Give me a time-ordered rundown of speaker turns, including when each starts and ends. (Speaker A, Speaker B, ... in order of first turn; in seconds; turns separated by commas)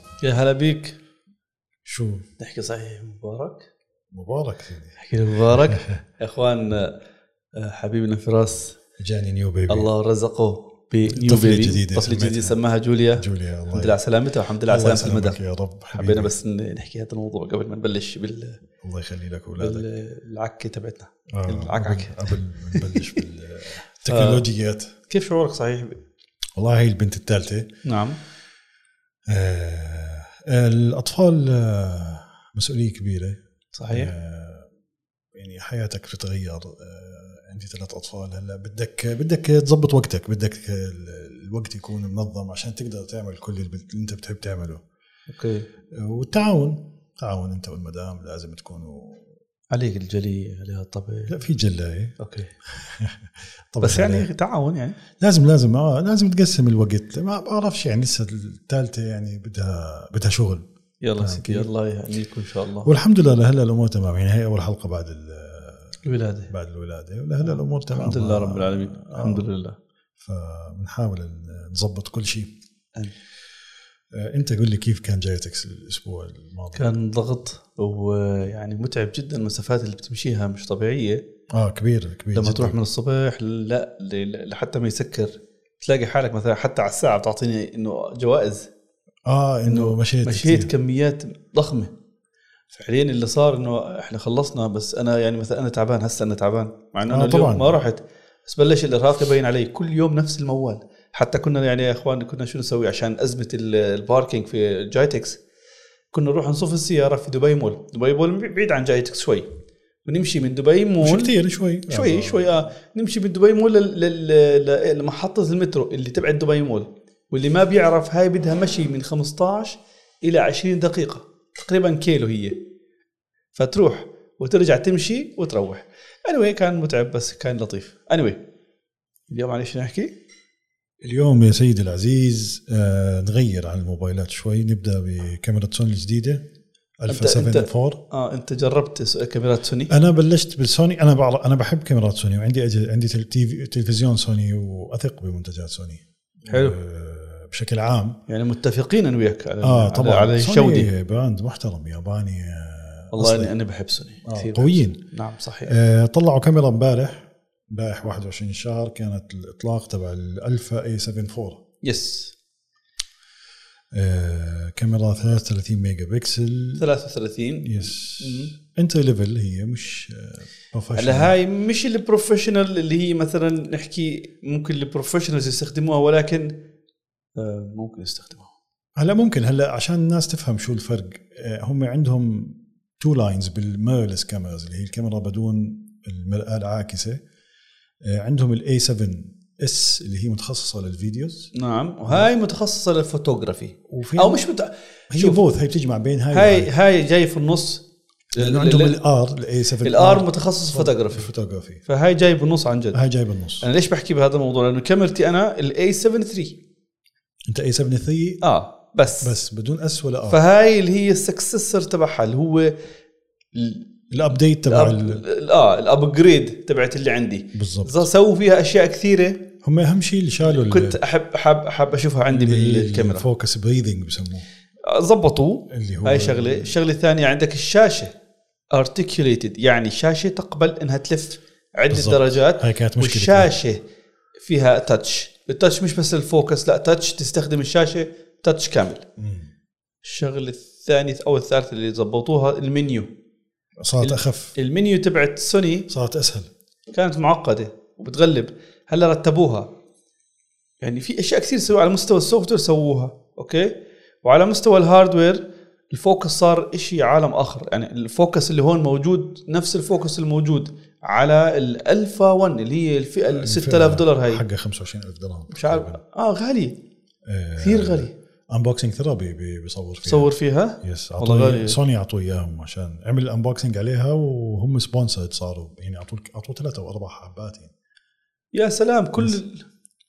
Speaker A: 0.2-1.0, Speaker B: 1.8-2.2, Speaker A: 2.4-3.6, Speaker B: 4.1-6.0, Speaker A: 5.0-7.0, Speaker A: 7.5-8.8, Speaker B: 9.0-9.9, Speaker A: 9.7-15.4, Speaker B: 11.1-12.6, Speaker B: 13.1-14.0, Speaker B: 14.7-16.3, Speaker A: 15.9-18.6, Speaker B: 18.8-19.9, Speaker A: 19.6-23.2, Speaker B: 21.3-24.9, Speaker A: 24.1-24.4, Speaker A: 25.1-26.0, Speaker B: 26.6-27.7, Speaker A: 27.8-28.2, Speaker B: 29.3-34.7, Speaker A: 33.7-34.1, Speaker B: 35.3-44.8, Speaker A: 45.3-45.7, Speaker B: 45.9-49.3, Speaker A: 49.7-51.4, Speaker B: 51.3-54.3, Speaker A: 52.2-52.5, Speaker A: 53.8-55.0, Speaker B: 55.2-60.6, Speaker A: 61.0-62.9, Speaker B: 61.2-61.7, Speaker B: 62.8-66.0, Speaker A: 66.0-66.5, Speaker B: 66.5-69.5, Speaker A: 67.4-69.8, Speaker B: 70.2-72.5, Speaker B: 74.1-76.9, Speaker A: 76.7-81.2, Speaker B: 81.5-82.8, Speaker A: 82.3-88.7, Speaker B: 89.2-90.7, Speaker A: 89.7-91.9, Speaker A: 92.7-105.4, Speaker B: 97.0-97.8, Speaker A: 106.1-109.5, Speaker A: 110.0-111.3, Speaker B: 111.0-112.6, Speaker A: 111.9-122.6, Speaker A: 123.5-128.4, Speaker A: 129.3-130.1, Speaker B: 131.0-136.4, Speaker B: 137.0-138.0, Speaker A: 137.1-139.9, Speaker B: 139.9-148.2, Speaker A: 146.4-146.8, Speaker A: 148.3-150.9, Speaker B: 149.6-153.5, Speaker A: 153.1-155.7, Speaker B: 154.2-155.0, Speaker B: 155.6-161.6, Speaker A: 161.8-162.3, Speaker B: 163.9-166.8, Speaker A: 166.8-168.5, Speaker B: 167.6-171.3, Speaker A: 170.9-176.5, Speaker A: 177.3-178.5, Speaker B: 178.9-187.2, Speaker B: 188.0-191.5, Speaker A: 191.5-195.4, Speaker B: 192.0-192.3, Speaker B: 193.9-194.4, Speaker B: 195.1-196.7, Speaker A: 196.3-199.0, Speaker B: 198.3-201.8, Speaker A: 199.8-201.3, Speaker A: 201.8-203.0, Speaker B: 202.9-203.7, Speaker A: 203.6-206.6, Speaker B: 207.5-208.4, Speaker A: 208.4-209.3, Speaker B: 209.2-210.4, Speaker A: 210.3-212.8, Speaker A: 213.5-213.9, Speaker B: 214.1-215.2, Speaker A: 214.6-219.5, Speaker B: 217.5-218.1, Speaker B: 219.6-221.0, Speaker A: 220.4-223.3, Speaker B: 222.3-224.4, Speaker A: 224.8-228.1, Speaker B: 225.7-226.8, Speaker A: 228.7-233.8, Speaker B: 231.9-233.5, Speaker A: 234.4-239.0, Speaker B: 239.2-239.5, Speaker A: 240.0-243.1, Speaker B: 243.8-244.5, Speaker A: 244.0-245.9, Speaker B: 245.9-246.5, Speaker A: 246.9-249.7, Speaker A: 250.8-264.4, Speaker B: 263.3-266.0, Speaker A: 265.5-266.8, Speaker B: 267.2-277.7, Speaker A: 267.6-268.1, Speaker A: 270.0-271.8, Speaker A: 278.5-279.6